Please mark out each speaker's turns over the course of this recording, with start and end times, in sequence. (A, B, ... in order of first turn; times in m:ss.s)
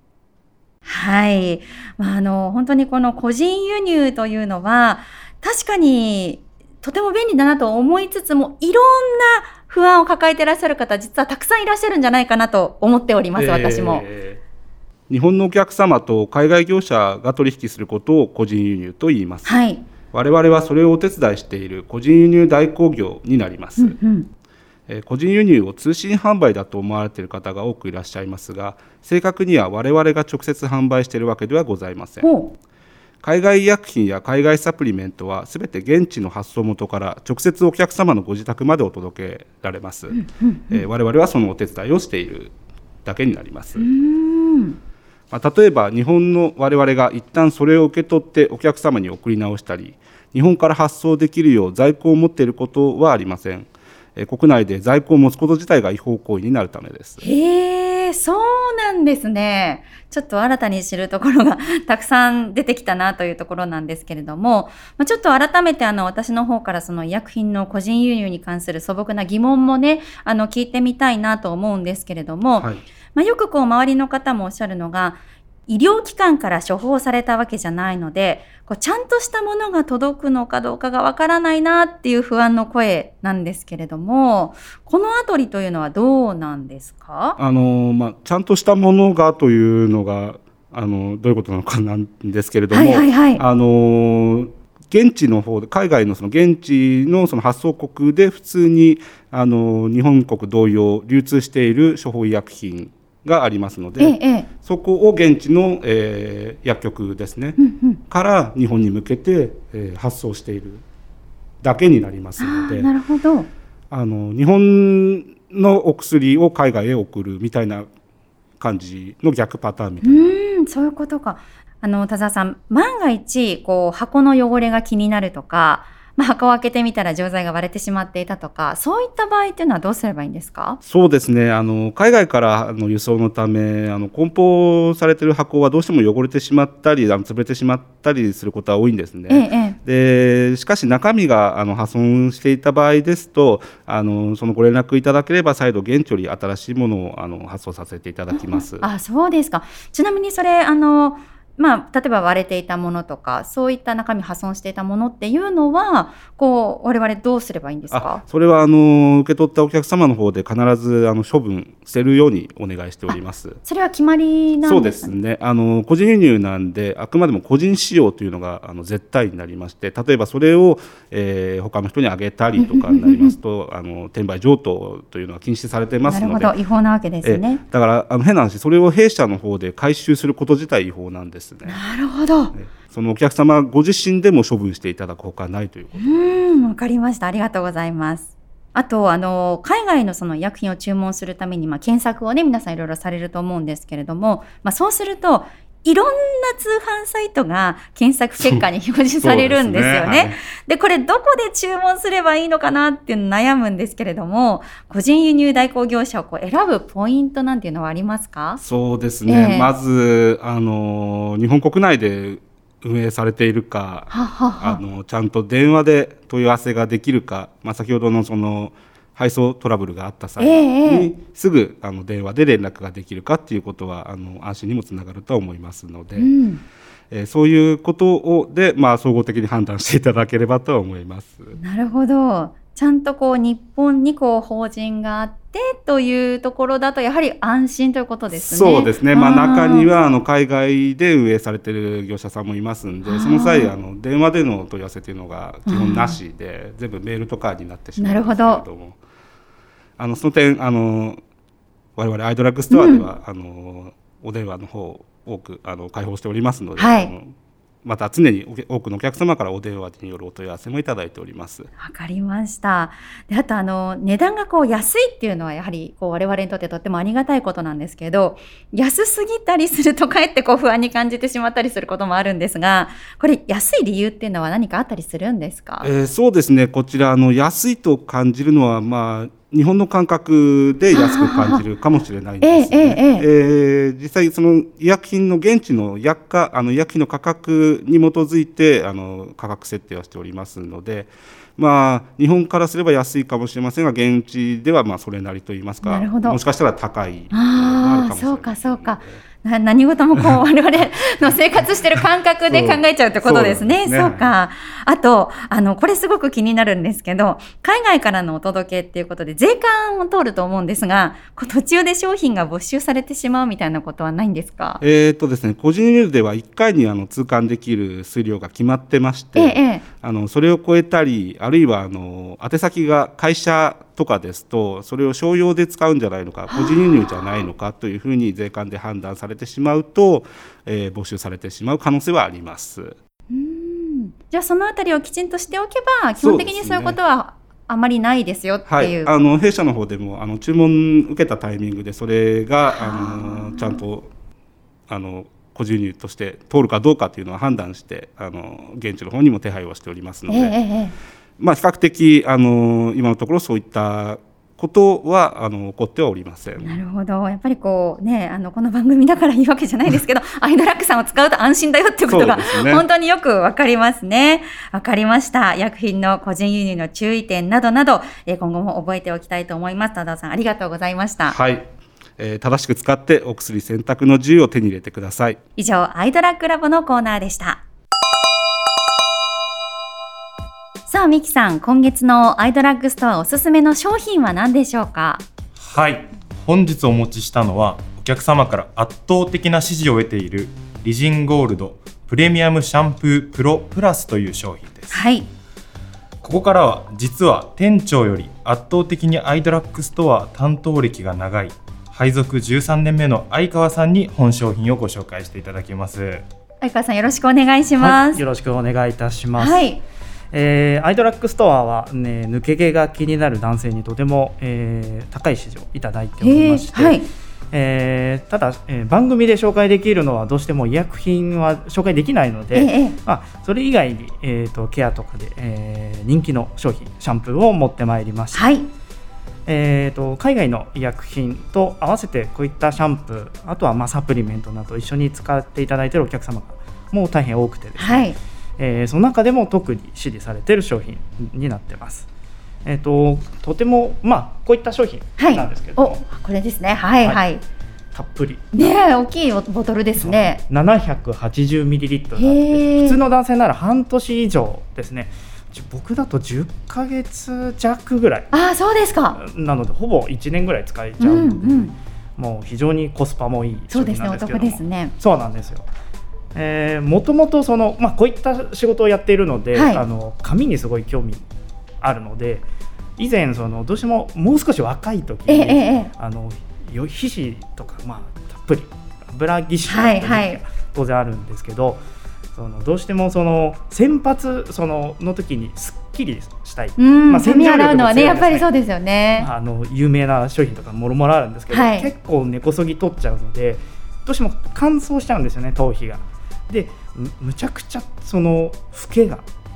0:00.8-0:14.0 A
0:13.4-0:14.4 B
0:15.1-0:19.6 B
0:19.5-0:19.8 A
0:20.1-0:24.0 B
0:23.8-0:24.3 A
0:24.9-0:32.3 B
0:32.2-0:32.6 A
0:33.2-0:42.5 B
0:40.1-0:40.8 A
0:43.0-0:43.9 B
0:43.8-0:44.8 A
0:45.3-0:57.2 B
0:57.2-1:27.4 A
1:27.4-1:50.8 B
1:32.7-1:33.4 A
1:44.0-1:44.5 A
1:47.6-1:48.0 A
1:51.6-1:52.9 B
1:52.4-1:53.5 A
1:53.9-1:57.9 B
1:58.6-2:00.3 B
2:00.0-2:10.8 A
2:10.9-2:28.9 B
2:19.3-2:19.8 A
2:28.3-2:38.2 A
2:37.9-2:43.6 B
2:43.1-2:45.1 A
2:44.6-2:56.6 B
2:52.6-2:53.3 A
2:56.1-2:57.6 A
2:57.2-3:01.8 B
3:01.6-3:02.5 A
3:02.5-3:06.5 B
3:06.0-3:28.6 A
3:19.2-3:20.4 B
3:28.6-3:46.3 B
3:29.2-3:29.7 A
3:34.1-3:34.8 A
3:40.4-3:41.1 A
3:46.2-3:46.6 A
3:47.1-3:51.6 B
3:51.6-3:59.9 A
3:58.3-4:09.0 B
4:03.0-4:03.7 A
4:05.7-4:06.2 A
4:08.0-4:08.6 A
4:10.0-4:11.2 B
4:12.0-4:17.3 B
4:12.7-4:13.1 A
4:16.8-4:17.1 A
4:17.8-4:21.7 B
4:21.8-4:35.9 A
4:35.8-4:59.2 B
4:40.9-4:41.6 A
4:42.4-4:43.2 A
4:55.8-4:56.4 A
4:57.3-5:14.8 A
5:02.5-5:04.3 B
5:14.8-5:33.0 B
5:19.4-5:19.8 A
5:26.5-5:27.4 A
5:33.3-5:39.1 A
5:36.2-5:37.0 B
5:38.7-5:44.1 B
5:42.7-5:43.8 A
5:44.9-5:50.6 B
5:50.3-5:50.9 A
5:51.4-5:56.8 B
5:56.6-6:11.4 A
6:02.1-6:02.8 B
6:11.3-6:15.4 B
6:15.6-6:17.6 A
6:20.9-6:25.2 A
6:25.6-6:35.0 C
6:34.9-6:35.3 A
6:36.2-6:46.2 C
6:46.6-6:48.2 A
6:47.8-6:49.6 D
6:49.4-6:49.8 A
6:50.3-7:08.5 D
6:56.2-6:57.1 A
7:02.5-7:03.0 A
7:08.3-7:08.7 A
7:09.4-7:22.1 D
7:17.8-7:18.2 A
7:22.6-7:26.0 D
7:25.2-7:27.4 A
7:27.9-7:28.7 D
7:28.5-7:30.4 A
7:30.0-7:38.3 D
7:32.2-7:33.0 A
7:38.3-7:39.2 A
7:39.2-7:45.6 D
7:41.0-7:41.7 A
7:43.7-7:44.9 A
7:46.4-7:51.2 D
7:49.5-7:49.8 A
7:51.8-8:01.8 D
7:55.3-7:55.9 A
7:59.7-8:00.4 A
8:02.3-8:08.5 D
8:06.8-8:09.3 A
8:09.2-8:19.2 D
8:11.5-8:11.9 A